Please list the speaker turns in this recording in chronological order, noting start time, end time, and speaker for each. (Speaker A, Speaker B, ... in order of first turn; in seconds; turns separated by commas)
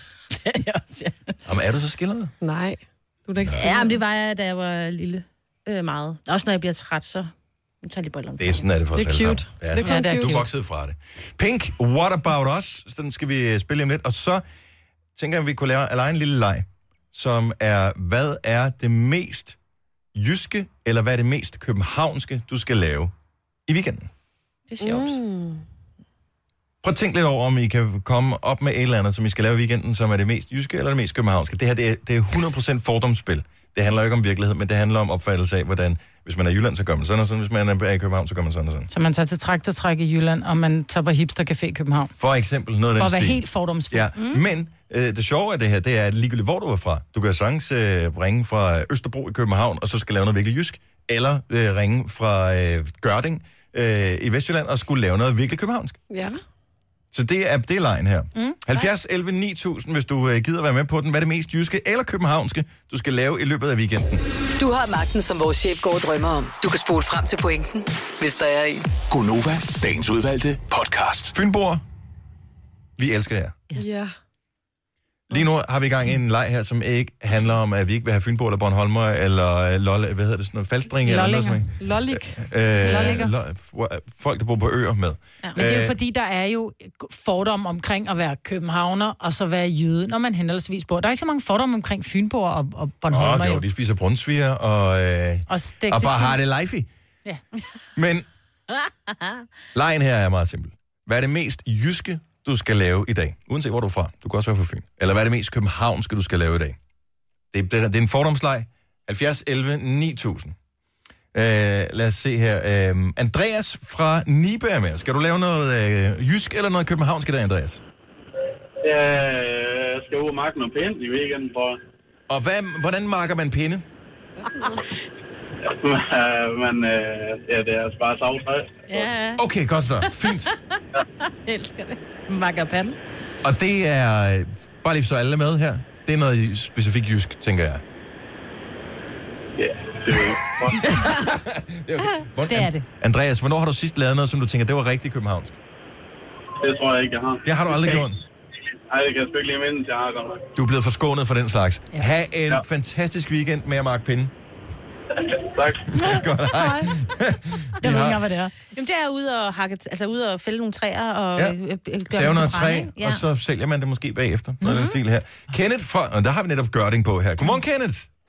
Speaker A: 0.3-1.4, Speaker B: 1.4-2.3, Speaker C: 2.4-4.0, Speaker A: 3.5-7.3, Speaker A: 7.8-8.7, Speaker B: 8.4-14.4, Speaker C: 9.0-10.4, Speaker D: 9.8-10.5, Speaker B: 15.2-19.6, Speaker B: 20.1-23.1, Speaker B: 23.7-24.1, Speaker A: 24.7-25.2, Speaker C: 24.8-25.6, Speaker B: 26.8-38.9, Speaker D: 38.9-42.1, Speaker B: 42.2-56.0, Speaker D: 43.0-44.1, Speaker C: 56.1-56.4, Speaker B: 57.1-64.2, Speaker E: 64.6-68.9, Speaker F: 69.1-71.3, Speaker B: 71.3-71.8, Speaker B: 73.0-73.6, Speaker C: 73.8-74.1, Speaker B: 75.3-86.0, Speaker D: 81.0-81.7, Speaker C: 81.8-83.2, Speaker D: 82.8-83.3, Speaker D: 85.6-93.6, Speaker B: 93.1-96.9, Speaker D: 95.5-96.4, Speaker B: 98.0-98.3, Speaker B: 99.7-106.8, Speaker B: 107.5-110.6, Speaker B: 111.3-117.8, Speaker G: 118.8-121.8, Speaker B: 122.3-123.8, Speaker C: 124.4-124.8, Speaker G: 125.7-129.0, Speaker A: 128.9-129.4, Speaker B: 129.4-130.5, Speaker A: 130.1-133.0, Speaker B: 133.4-137.8, Speaker G: 139.6-140.8, Speaker B: 140.8-145.6, Speaker A: 142.5-142.8, Speaker G: 146.6-148.1, Speaker B: 147.4-148.2, Speaker G: 148.9-150.4, Speaker B: 150.6-154.3, Speaker G: 155.2-155.9, Speaker B: 155.9-158.2, Speaker D: 156.0-156.9, Speaker D: 157.8-158.5, Speaker A: 158.7-163.2, Speaker B: 162.1-168.1, Speaker D: 164.6-164.9